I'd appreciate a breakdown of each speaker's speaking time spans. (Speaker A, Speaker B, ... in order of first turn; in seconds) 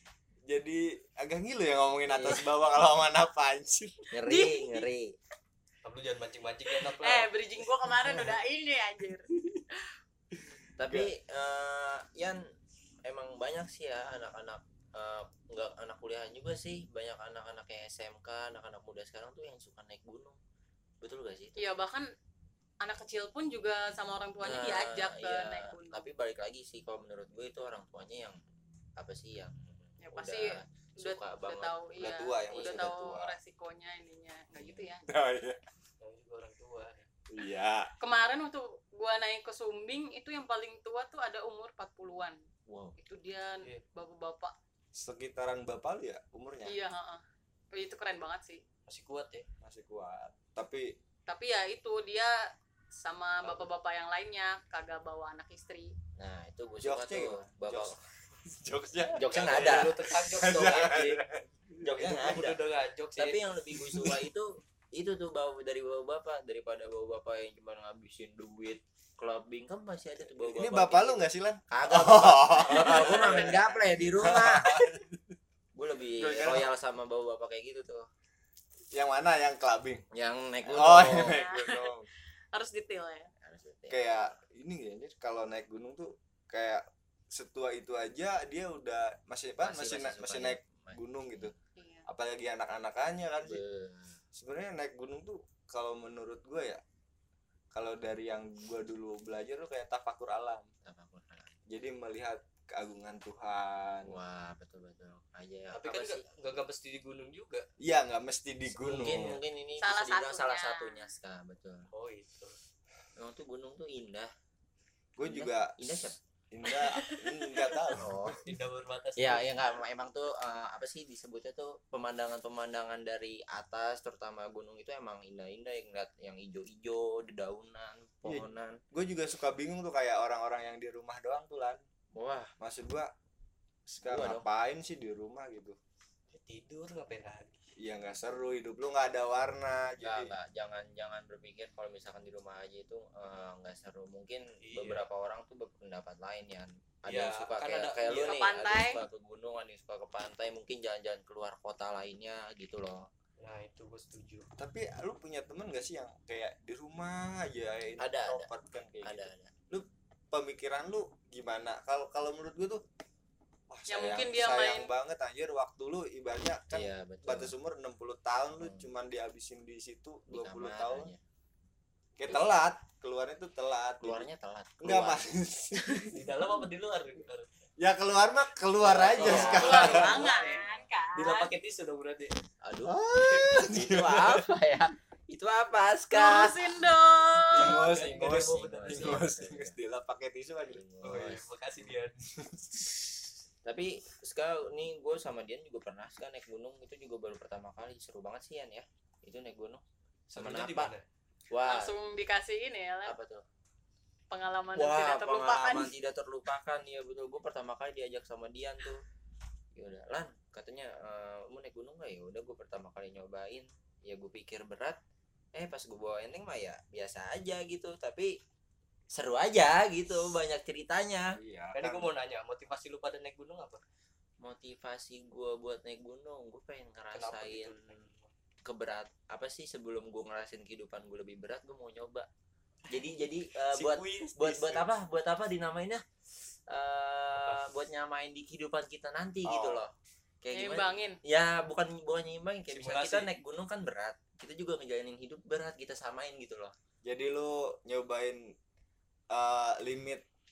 Speaker A: 0.5-4.1, 10.8-11.1, 32.0-33.4, 35.1-35.6, 37.3-37.9, 44.9-46.8, 49.6-51.0, 56.8-62.3, 63.9-64.2, 70.4-75.2, 76.2-76.7, 78.9-80.0, 80.6-82.1, 83.9-91.5, 92.1-93.6, 94.3-96.8, 97.7-100.7, 101.7-104.2, 107.8-109.4, 115.2-118.2, 128.2-131.8, 132.6-133.1, 133.9-135.8, 137.8-140.3, 154.6-162.8, 163.7-171.1, 172.2-174.3, 174.8-176.1, 177.8-180.7, 182.9-184.5, 187.5-190.8, 192.4-193.2, 221.3-222.1, 239.4-239.8, 247.0-248.6, 249.3-250.2
Speaker B: 2.1-2.5, 4.1-5.2, 10.8-12.4, 13.0-20.4, 21.0-21.7, 24.4-28.4, 29.0-33.0, 34.6-34.9, 42.7-43.0, 56.2-58.0, 59.1-60.9, 61.8-62.6, 63.2-74.8, 75.7-78.1, 80.1-81.4, 83.4-84.3, 89.6-91.5, 93.4-94.2, 100.8-101.6, 104.0-106.2, 108.7-111.9, 113.2-114.3, 115.2-116.2, 118.0-118.4, 119.2-128.8, 132.2-132.5, 134.0-134.5, 140.0-153.1, 158.0-158.5, 159.0-159.5, 166.7-167.5, 168.6-168.9, 170.3-171.2, 174.0-176.1, 178.8-180.6, 182.6-187.0, 187.6-189.8, 190.7-191.5, 193.7-199.8, 200.3-200.9, 201.5-201.9, 203.1-203.4, 204.8-209.0, 209.8-215.0, 215.5-218.4, 219.1-221.4, 224.4-227.9, 228.6-232.3, 232.9-236.0, 236.7-246.8
Speaker C: 4.3-4.8, 6.8-9.3, 21.6-22.1, 22.8-26.1, 30.0-35.1, 38.0-42.4, 43.0-44.5, 46.7-48.6, 51.3-56.0, 72.8-73.7, 81.2-81.9, 82.5-83.3, 91.8-92.1, 109.8-111.1, 148.3-149.0, 163.9-164.9, 172.3-172.6, 179.4-181.5, 186.1-187.9, 201.7-203.2, 204.3-205.9, 240.5-241.2
Speaker D: 5.8-7.3, 36.0-37.1, 48.9-49.5, 59.2-61.3, 62.0-63.4, 105.7-107.7, 111.9-112.5, 118.4-119.7, 136.3-137.7, 144.6-145.0, 147.1-148.4, 153.4-154.5, 176.1-177.5, 179.2-180.6, 181.1-182.3, 187.6-189.3, 191.0-192.2, 200.3-201.0, 221.7-223.8, 227.1-228.3, 233.7-234.8, 237.4-237.7, 242.7-243.3